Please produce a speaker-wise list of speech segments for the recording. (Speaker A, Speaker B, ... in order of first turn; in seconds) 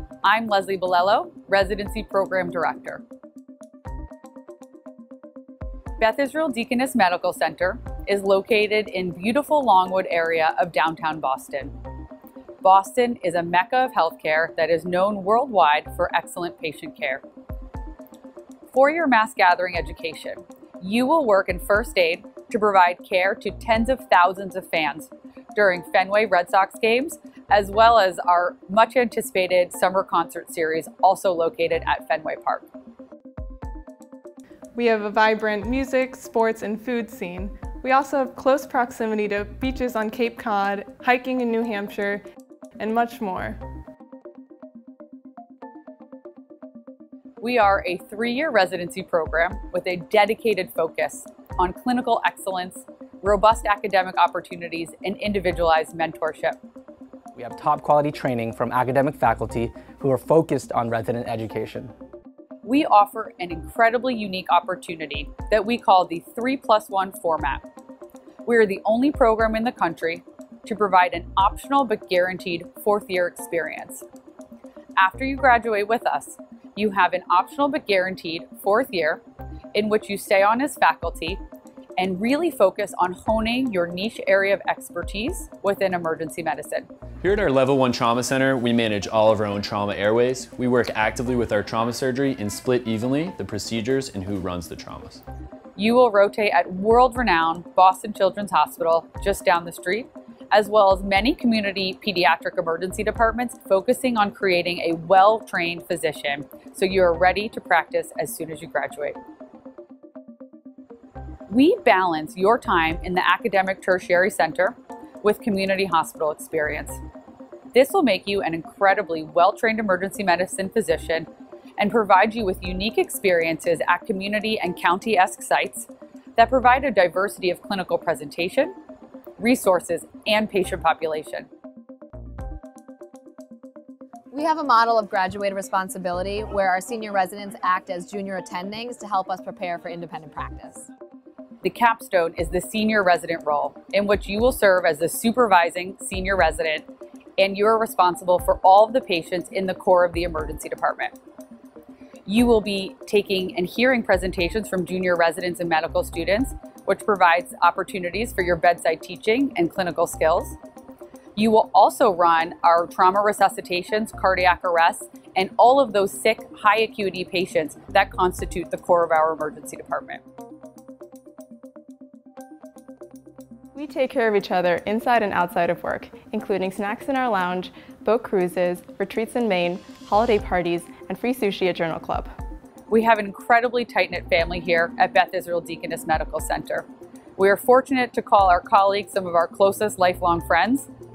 Speaker A: 0.2-3.0, 6.0-11.8, 12.6-17.2, 18.7-32.7, 47.4-56.6, 62.6-67.6, 68.5-74.0, 75.0-79.2, 79.7-81.4, 82.0-86.9, 95.8-109.2, 111.5-117.0, 117.7-128.7, 129.4-131.5, 141.6-151.2, 152.3-160.6, 161.3-170.2, 182.9-190.9
Speaker B: 34.8-42.2, 42.8-43.6, 173.8-182.3
Speaker C: 57.4-61.9
Speaker D: 87.2-95.2
Speaker E: 134.3-140.9